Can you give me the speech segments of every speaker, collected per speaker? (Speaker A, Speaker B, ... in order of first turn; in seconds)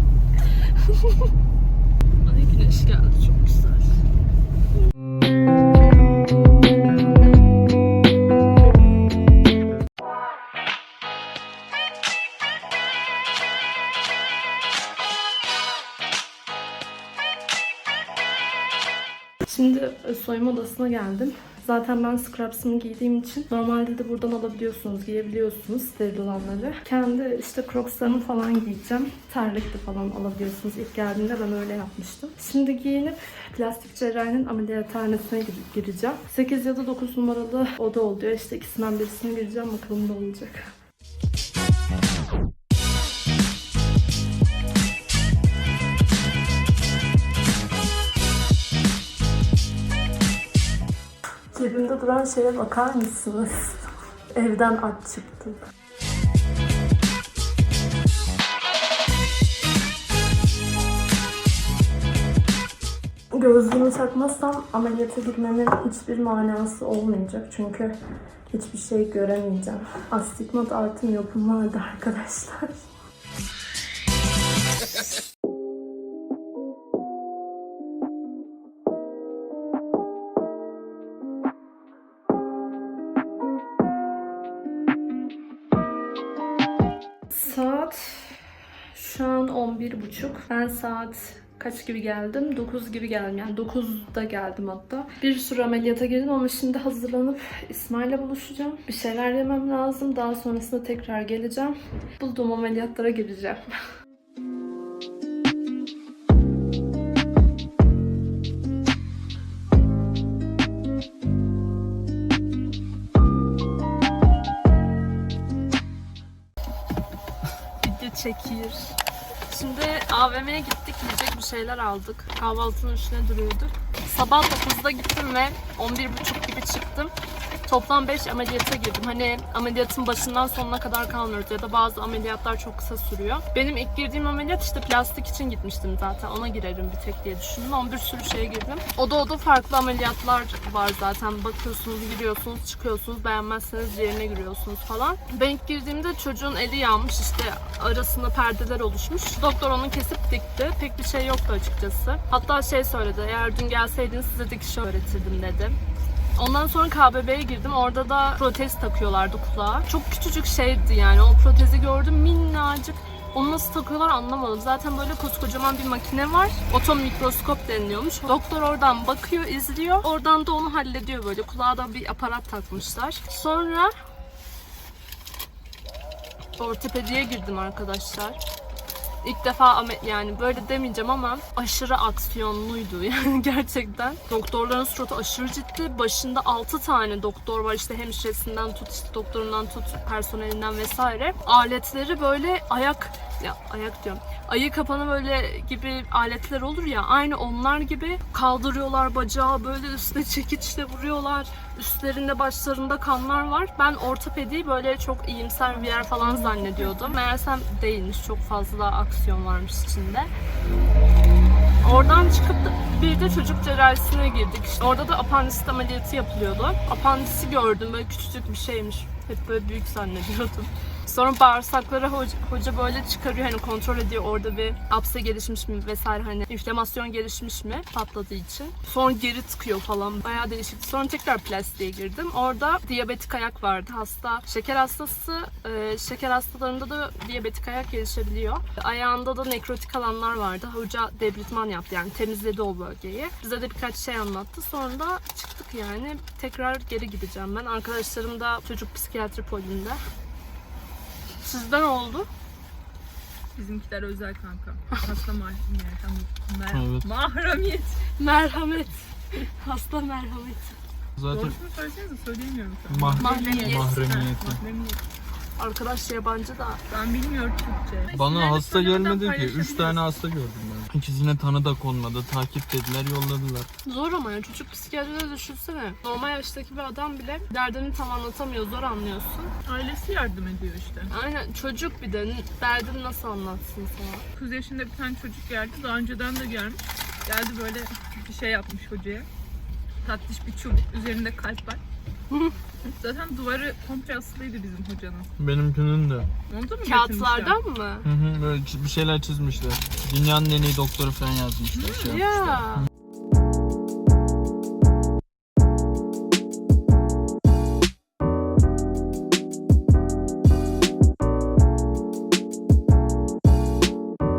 Speaker A: 0.4-1.3, 2.2-4.0, 19.5-40.7, 51.5-55.6, 63.3-67.9, 68.5-72.8, 87.3-88.4, 88.9-103.7, 117.8-118.8, 119.5-127.1, 127.7-155.8, 156.4-173.9, 176.6-178.4, 179.2-210.3, 211.8-250.0, 251.4-252.3, 258.2-260.8, 263.2-264.0, 265.6-266.8, 273.9-279.5, 281.1-284.2, 292.3-292.6, 296.8-298.1, 302.0-302.9
Speaker B: 205.7-207.2, 253.6-258.0, 261.3-265.0, 266.9-270.1, 279.6-281.1, 284.4-289.3, 290.0-291.8, 292.9-295.3, 296.5-297.6, 301.7-302.2
Speaker C: 256.7-257.1, 261.2-261.6, 262.9-264.6, 268.1-273.7, 295.4-296.3, 298.1-302.8